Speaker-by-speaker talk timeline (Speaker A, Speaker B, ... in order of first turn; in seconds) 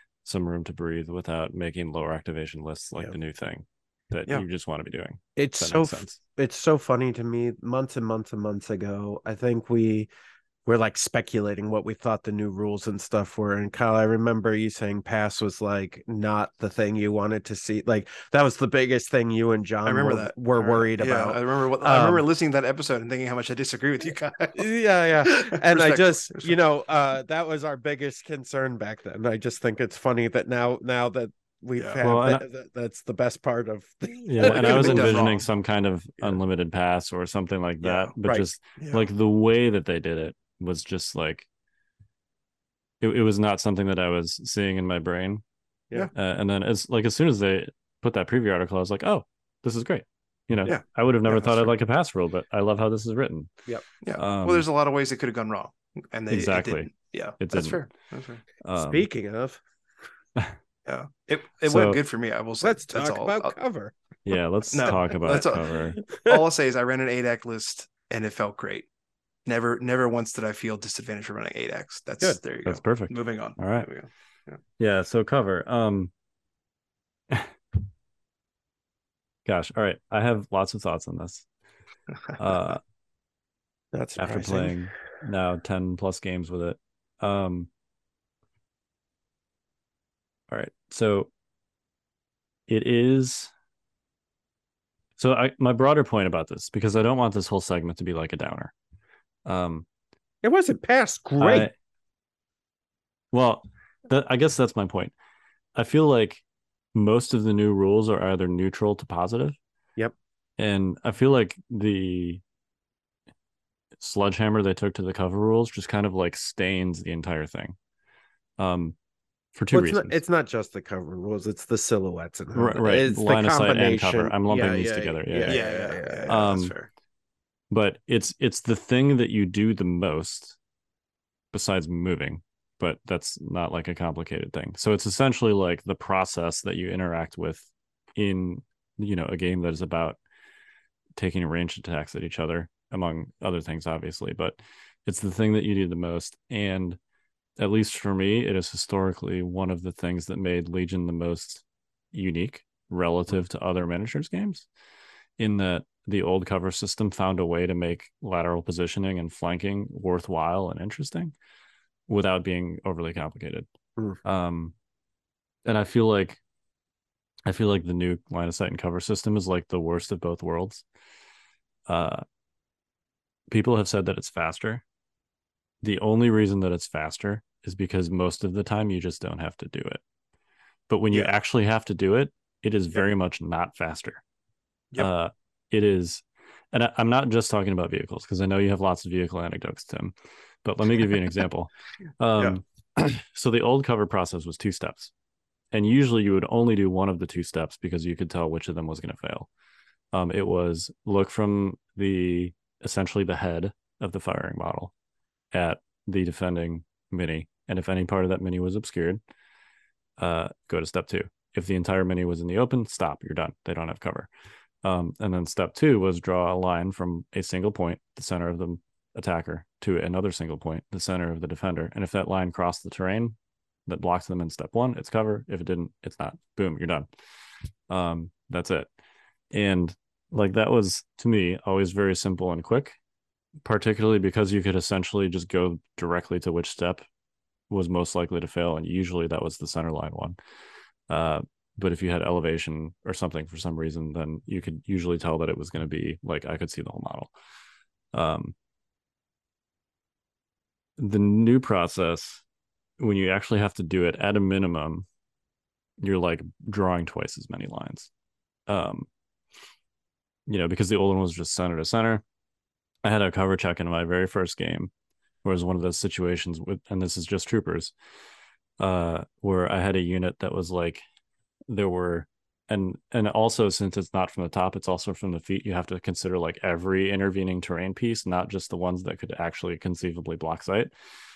Speaker A: 0.2-6.2, 32.0-32.4, 34.2-41.5, 43.0-45.4, 46.1-53.5, 54.1-54.7, 56.3-57.8, 58.6-59.1, 61.7-62.0, 64.2-66.0, 72.7-73.9, 74.8-76.1, 79.5-81.5, 82.4-82.8, 84.2-87.7, 90.5-91.3, 92.7-93.5, 95.2-98.7, 99.5-99.9, 101.4-101.7, 103.3-105.1, 105.8-106.4, 106.9-109.6, 110.6-112.4, 114.0-117.8, 118.6-119.0, 119.5-120.2, 122.5-125.7, 126.3-126.7, 127.7-130.6, 131.5-140.2, 141.2-147.0, 147.6-154.7, 155.4-161.3, 162.1-163.7, 164.2-164.7, 165.7-166.4, 167.5-170.8, 171.9-172.2, 173.5-174.8, 175.8-180.0, 180.9-184.2, 185.0-195.1, 195.7-199.5, 200.1-204.9, 205.5-209.2, 210.2-214.3, 214.8-227.1, 227.9-228.9, 229.5-233.0, 233.6-237.1, 237.7-240.4, 241.1-247.3, 248.1-248.6, 251.0-252.4, 253.0-255.1, 256.0-258.1, 258.7-259.1, 260.5-262.2, 263.0-264.9, 265.4-267.9, 268.8-271.0, 271.7-280.9
Speaker B: 5.4-10.1, 10.7-22.2, 24.6-35.3, 38.3-38.5, 58.8-59.6, 62.6-63.9, 64.9-66.4, 83.9-84.8, 100.4-101.7, 119.7-126.3
Speaker C: 19.9-24.7, 25.2-26.6, 34.4-35.5, 37.8-38.1, 38.8-39.1, 50.7-51.7, 54.0-58.4, 60.9-63.6, 64.7-68.9, 69.5-74.6, 125.5-126.9